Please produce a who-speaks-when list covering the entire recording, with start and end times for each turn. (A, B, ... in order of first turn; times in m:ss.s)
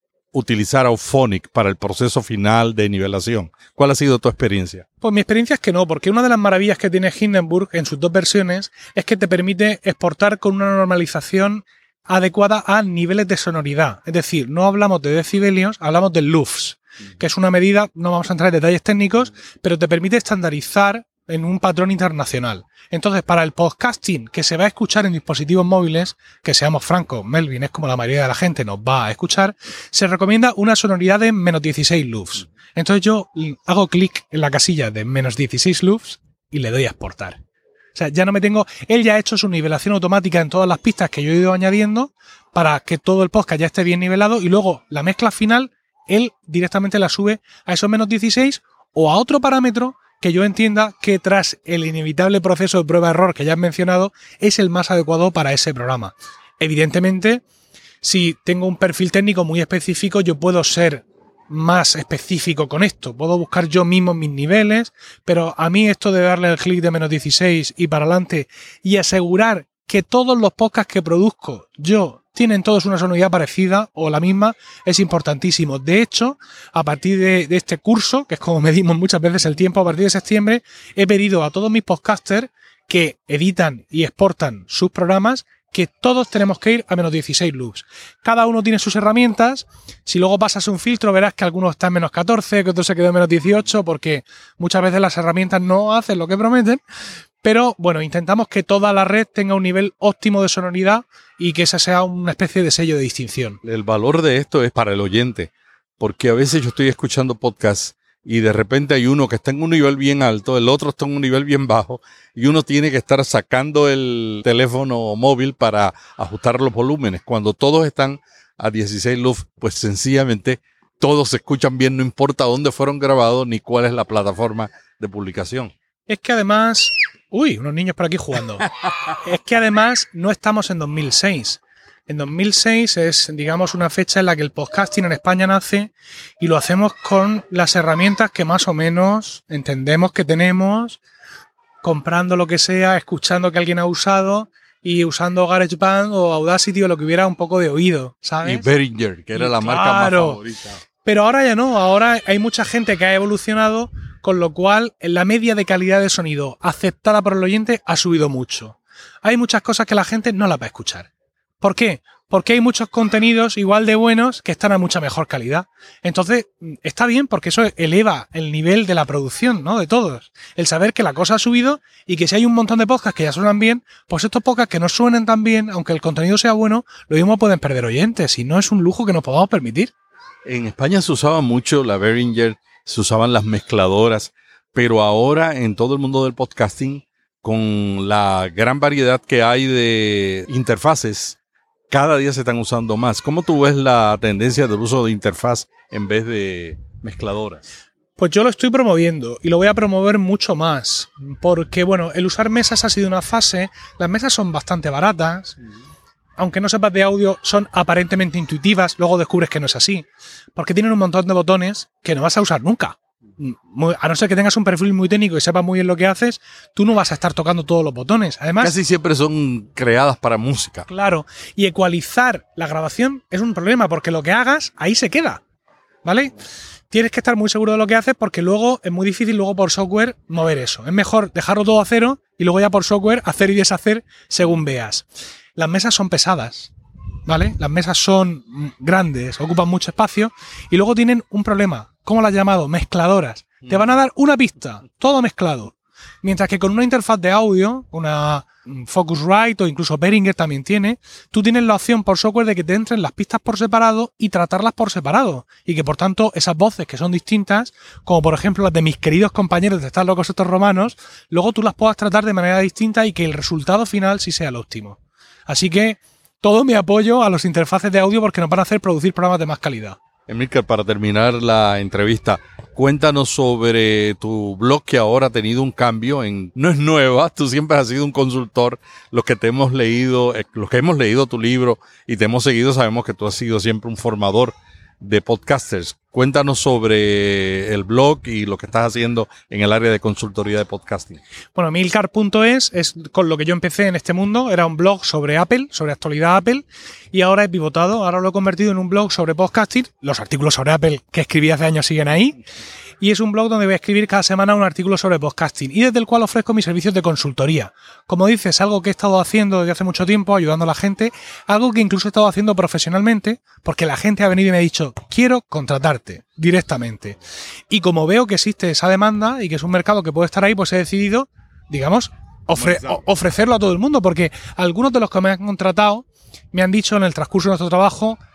0:00.3-0:04.8 A
0:05.0-0:37.4 B
0:37.9-0:57.4 B
0:58.0-1:36.8 B
1:37.4-1:43.6 B
1:43.6-2:05.7 A
2:06.1-2:21.0 B
2:21.8-2:28.7 B
2:28.4-2:30.8 A
2:29.3-2:30.4 B
2:31.0-2:41.1 B
2:41.6-2:59.9 B
3:00.4-3:11.4 A
3:11.9-3:17.6 A
3:18.2-3:25.6 B
3:26.4-3:38.8 B
3:38.6-3:40.9 A
3:40.9-3:45.4 B
3:46.0-3:46.3 B
3:46.9-3:56.7 B
3:57.2-4:30.0 B
4:30.3-4:51.2 A
4:51.5-5:02.4 B
5:03.0-5:17.2 B
5:17.7-5:28.2 B